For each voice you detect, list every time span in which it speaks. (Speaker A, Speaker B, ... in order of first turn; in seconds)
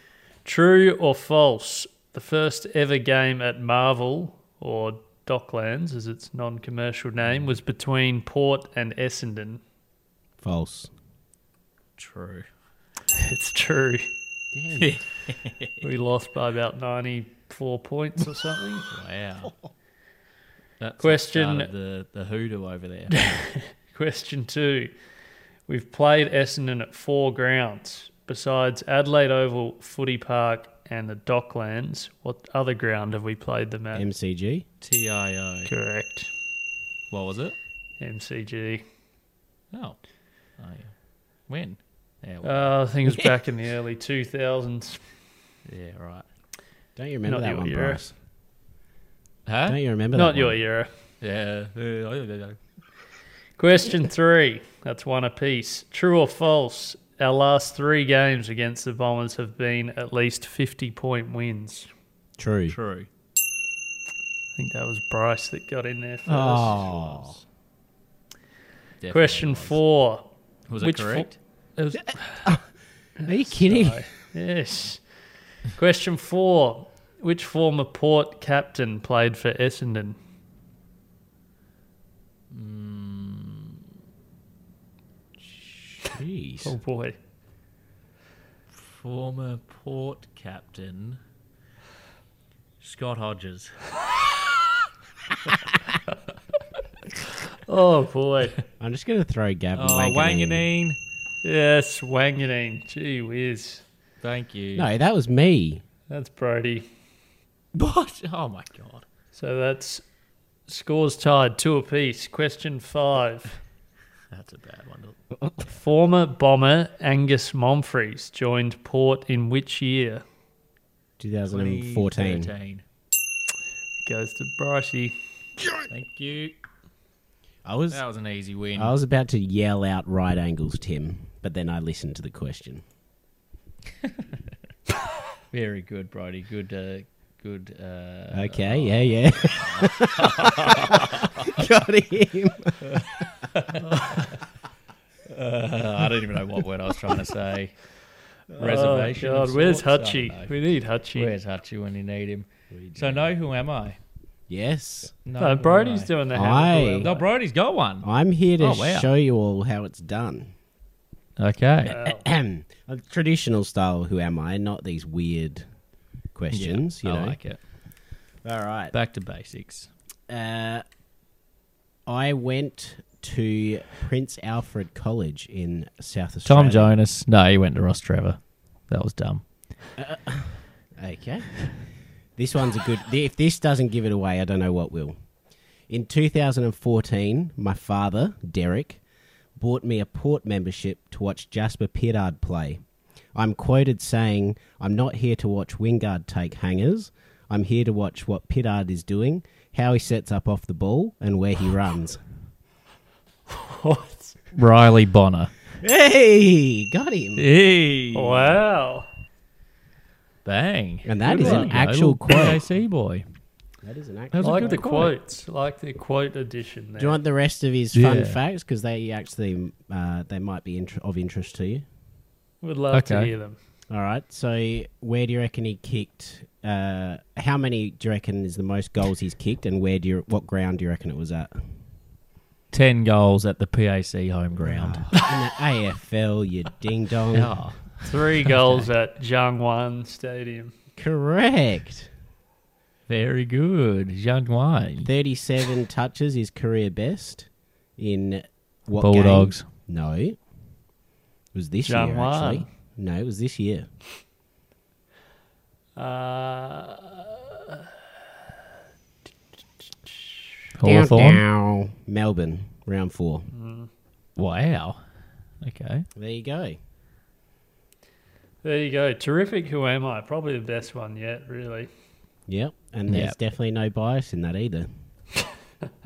Speaker A: 0.5-9.6, 13.1-14.1, 15.8-18.9, 21.0-21.7, 23.1-24.9, 25.7-34.1, 35.7-36.3, 38.0-38.8, 42.4-45.0, 47.3-48.0, 50.1-50.9, 53.6-61.9, 64.6-66.9, 69.1-70.3, 70.8-72.5, 73.2-75.0, 75.8-80.2, 86.6-87.2, 97.7-98.6, 101.4-103.8, 106.1-106.9, 109.3-110.0, 110.7-113.6, 115.6-120.2, 124.0-125.2, 148.6-151.3, 155.4-157.2, 161.9-162.2, 203.5-204.3, 208.1-209.1, 211.2-211.8, 214.4-217.2, 222.6-223.6, 238.1-240.7, 251.8-252.7, 256.0-257.9, 260.0-260.4, 263.5-263.9, 268.6-271.9
Speaker B: 10.4-10.9, 14.5-14.9, 33.9-34.7, 47.0-48.1, 49.7-50.6, 62.4-62.8, 66.3-67.4, 72.0-72.7, 73.2-74.0, 86.1-86.8, 98.8-100.7, 104.8-105.8, 121.2-122.5, 127.7-128.0, 128.8-132.8, 138.3-143.1, 152.7-153.3, 154.5-155.2, 156.3-157.1, 158.0-160.5, 161.9-165.7, 166.3-167.4, 168.4-168.9, 170.3-170.8, 172.1-176.9, 180.0-181.8, 182.4-185.2, 185.9-189.0, 189.6-192.8, 193.3-202.2, 205.8-207.5, 211.1-212.7, 213.8-214.8, 217.0-221.8, 223.9-231.7, 234.6-237.5, 241.0-242.1, 245.0-250.4, 251.5-253.9, 260.8-263.5, 266.2-266.8, 272.5-274.9
Speaker C: 12.0-12.5, 14.8-15.8, 18.9-19.5, 20.8-23.2, 34.8-35.7, 37.1-37.5, 39.7-40.0, 40.6-40.9, 41.5-42.7, 45.7-46.3, 49.5-49.8, 51.2-52.6, 62.7-63.1, 66.7-67.4, 69.0-69.8, 70.7-71.4, 82.5-83.8, 88.7-91.2, 92.8-93.7, 99.8-101.0, 104.2-104.9, 107.7-109.1, 114.3-115.2, 121.5-122.8, 125.9-126.6, 127.9-128.9, 135.5-141.5, 142.9-144.4, 145.3-147.8, 148.5-150.6, 151.2-154.0, 155.2-156.1, 157.0-158.1, 158.6-159.1, 161.4-162.0, 166.5-167.6, 168.9-169.9, 176.5-179.4, 204.5-205.5, 207.4-208.6, 210.4-213.2, 214.3-215.1, 217.9-218.4, 222.9-223.3, 232.7-235.2, 237.3-238.9, 243.1-245.1, 249.0-249.7, 260.8-261.4, 264.4-265.0, 265.6-266.1, 273.1-273.4